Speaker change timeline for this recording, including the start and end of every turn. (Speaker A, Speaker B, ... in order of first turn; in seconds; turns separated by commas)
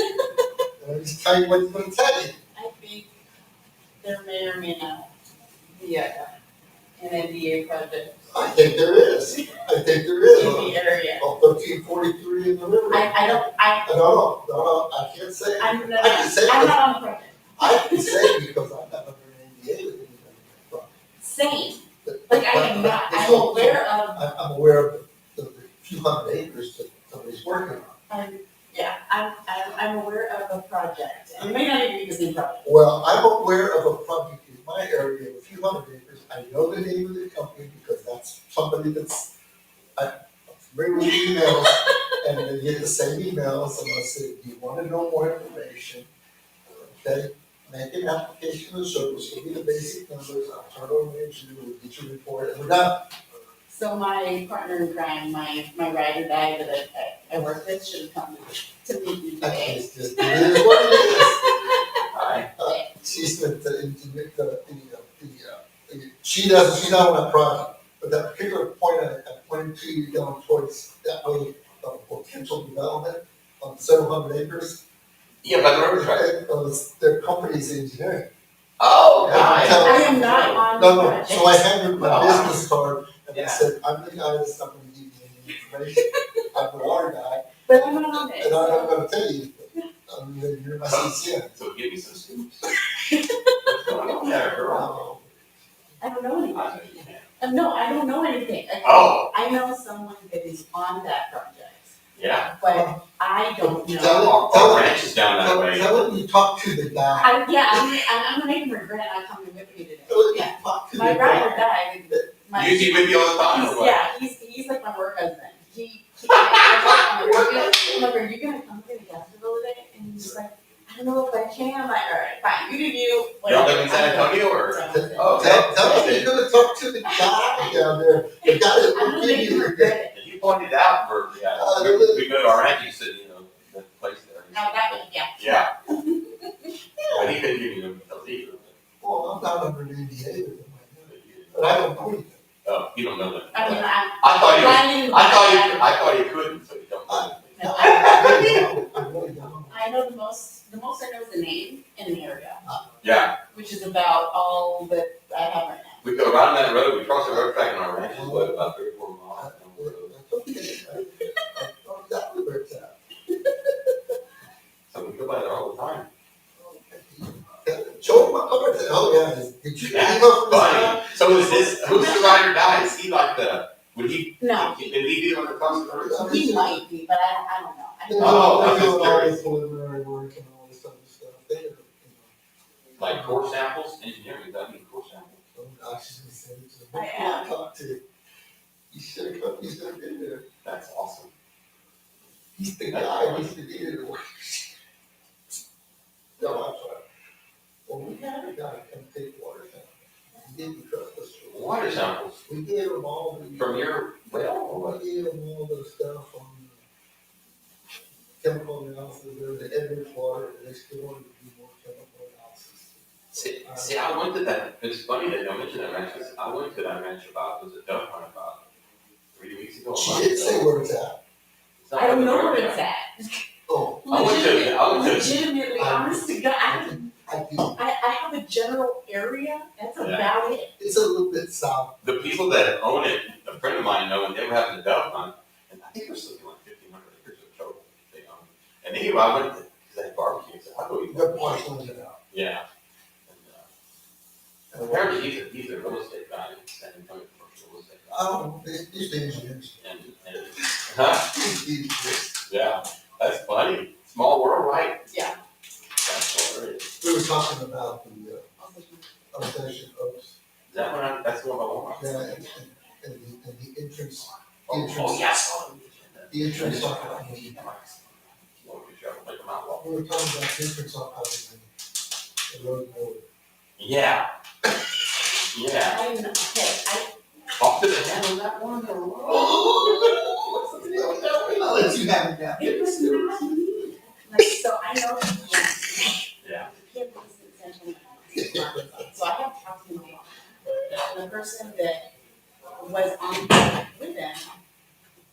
Speaker A: 0.8-2.4, Speaker B: 2.5-3.1, Speaker B: 4.0-5.1, Speaker B: 5.8-6.3, Speaker B: 7.0-8.1, Speaker A: 8.3-16.8, Speaker B: 10.3-11.2, Speaker B: 12.9-13.9, Speaker B: 15.6-18.3, Speaker A: 17.6-20.9, Speaker B: 21.2-24.2, Speaker A: 22.0-27.9, Speaker B: 28.1-32.7, Speaker A: 32.6-39.3, Speaker A: 40.0-46.1, Speaker B: 40.9-41.9, Speaker A: 46.8-53.0, Speaker B: 53.7-61.8, Speaker A: 59.4-61.4, Speaker C: 62.1-62.5, Speaker A: 62.6-74.8, Speaker B: 62.6-62.9, Speaker C: 75.4-76.3, Speaker A: 75.7-78.3, Speaker C: 78.8-80.6, Speaker A: 79.2-91.5, Speaker B: 79.3-81.7, Speaker C: 81.9-82.6, Speaker C: 83.3-83.7, Speaker B: 87.7-89.0, Speaker C: 90.9-92.7, Speaker C: 93.6-95.0, Speaker B: 93.9-94.8, Speaker A: 94.2-95.4, Speaker B: 96.0-101.9, Speaker C: 96.5-97.3, Speaker C: 98.8-99.3, Speaker C: 102.2-102.5, Speaker B: 102.6-104.4, Speaker A: 102.7-103.0, Speaker A: 103.6-107.9, Speaker C: 104.0-106.0, Speaker B: 107.2-126.1, Speaker A: 110.1-112.2, Speaker C: 112.5-114.1, Speaker C: 116.3-117.7, Speaker C: 123.5-126.3, Speaker A: 124.9-130.0, Speaker B: 127.0-127.7, Speaker B: 128.4-130.1, Speaker C: 130.1-135.7, Speaker A: 131.6-132.6, Speaker B: 134.5-136.8, Speaker C: 137.1-138.8, Speaker A: 139.0-142.4, Speaker C: 141.1-141.8, Speaker C: 142.7-148.7, Speaker B: 143.5-145.9, Speaker A: 147.1-149.9, Speaker B: 147.6-148.7, Speaker B: 149.7-152.6, Speaker C: 153.0-153.3, Speaker B: 153.5-156.2, Speaker C: 156.0-160.1, Speaker A: 157.3-157.6, Speaker A: 158.1-158.7, Speaker A: 159.3-163.0, Speaker C: 164.9-166.1, Speaker A: 166.6-172.2, Speaker C: 168.0-168.4, Speaker C: 169.9-176.2, Speaker B: 171.8-172.4, Speaker B: 174.4-174.9, Speaker A: 176.0-176.8, Speaker B: 176.2-178.8, Speaker A: 178.1-182.3, Speaker C: 178.2-179.3, Speaker A: 182.9-183.5, Speaker C: 183.0-185.4, Speaker A: 185.6-188.0, Speaker B: 186.9-187.5, Speaker A: 188.9-190.5, Speaker C: 190.6-191.3, Speaker A: 192.6-194.7, Speaker C: 192.9-193.5, Speaker A: 196.4-197.0, Speaker A: 197.9-206.8, Speaker C: 201.5-202.4, Speaker C: 203.6-205.0, Speaker A: 208.4-214.3, Speaker C: 213.3-218.6, Speaker C: 219.3-220.7, Speaker A: 219.9-221.2, Speaker C: 221.8-222.8, Speaker B: 221.9-223.4, Speaker A: 223.7-224.3, Speaker B: 224.0-227.1, Speaker C: 224.1-225.4, Speaker A: 225.8-227.8, Speaker B: 227.7-230.7, Speaker C: 230.0-230.3, Speaker A: 230.8-232.0, Speaker C: 232.0-241.7, Speaker A: 241.1-242.2, Speaker C: 242.3-242.6, Speaker C: 243.3-243.7, Speaker A: 244.7-245.3, Speaker C: 244.8-248.2, Speaker A: 248.1-249.8, Speaker C: 249.8-251.3, Speaker A: 250.6-252.3, Speaker C: 252.5-255.1, Speaker B: 255.1-255.4, Speaker C: 256.0-256.9, Speaker A: 257.0-258.5, Speaker B: 258.6-259.3, Speaker A: 259.3-260.4, Speaker C: 260.7-262.3, Speaker A: 262.0-265.4, Speaker C: 264.6-270.0, Speaker A: 266.3-267.6, Speaker A: 269.8-271.7, Speaker A: 272.5-273.2, Speaker C: 273.8-274.3, Speaker C: 275.5-276.0, Speaker B: 275.9-277.1, Speaker C: 277.6-280.1, Speaker A: 279.2-283.5, Speaker B: 282.6-286.1, Speaker C: 286.4-286.7, Speaker B: 286.7-292.1, Speaker A: 288.3-289.1, Speaker B: 292.8-294.5